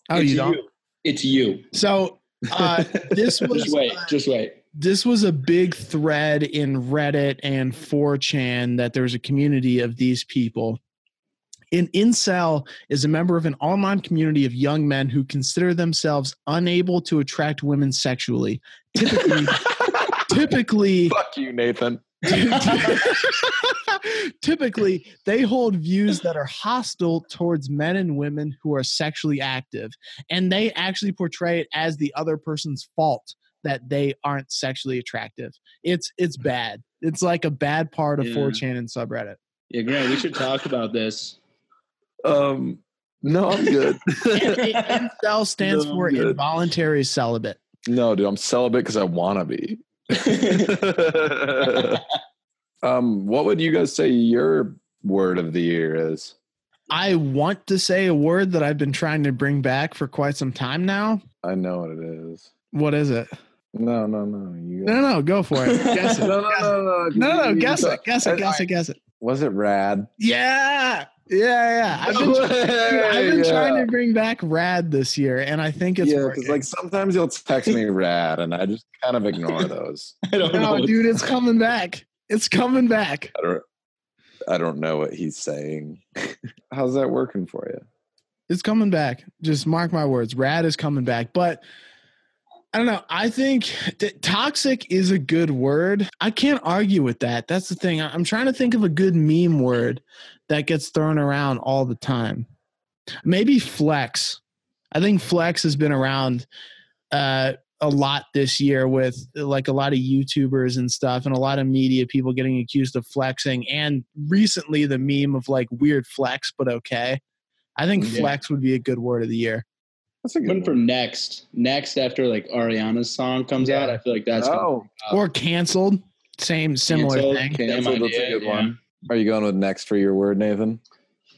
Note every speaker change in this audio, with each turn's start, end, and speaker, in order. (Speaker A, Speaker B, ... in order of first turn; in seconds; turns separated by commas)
Speaker A: 0.1-0.6, Speaker B: 0.1-1.7, Speaker A: 1.7-4.1, Speaker C: 2.5-3.4, Speaker B: 3.5-4.6, Speaker A: 4.7-10.8, Speaker A: 11.7-21.2, Speaker C: 19.8-20.3, Speaker C: 21.1-22.2, Speaker A: 22.2-39.4, Speaker B: 22.5-23.0, Speaker C: 22.7-23.3, Speaker B: 38.2-38.6, Speaker B: 39.7-41.4, Speaker C: 42.2-44.6, Speaker B: 44.3-45.1, Speaker A: 44.4-47.6, Speaker B: 45.6-46.3, Speaker C: 46.1-46.4, Speaker C: 47.9-52.0, Speaker B: 50.1-50.8, Speaker B: 51.7-52.0, Speaker C: 52.8-56.3, Speaker A: 56.9-61.2, Speaker C: 61.4-62.5, Speaker A: 62.7-63.3, Speaker C: 63.7-65.0, Speaker A: 64.8-69.0, Speaker B: 65.6-66.3, Speaker C: 66.2-68.7, Speaker C: 69.2-70.1, Speaker A: 70.2-76.6, Speaker C: 72.0-73.9, Speaker C: 76.0-80.2, Speaker B: 80.3-81.2, Speaker A: 80.5-83.3, Speaker C: 83.3-83.7, Speaker C: 84.5-87.8, Speaker A: 88.5-91.6, Speaker A: 92.7-102.5, Speaker A: 103.2-104.4, Speaker A: 104.9-106.5, Speaker A: 107.1-117.2, Speaker A: 117.8-119.7, Speaker C: 120.2-120.8, Speaker B: 120.4-125.2, Speaker A: 123.6-124.0, Speaker C: 124.4-124.9, Speaker A: 125.1-127.6, Speaker B: 126.9-128.8, Speaker C: 127.5-130.8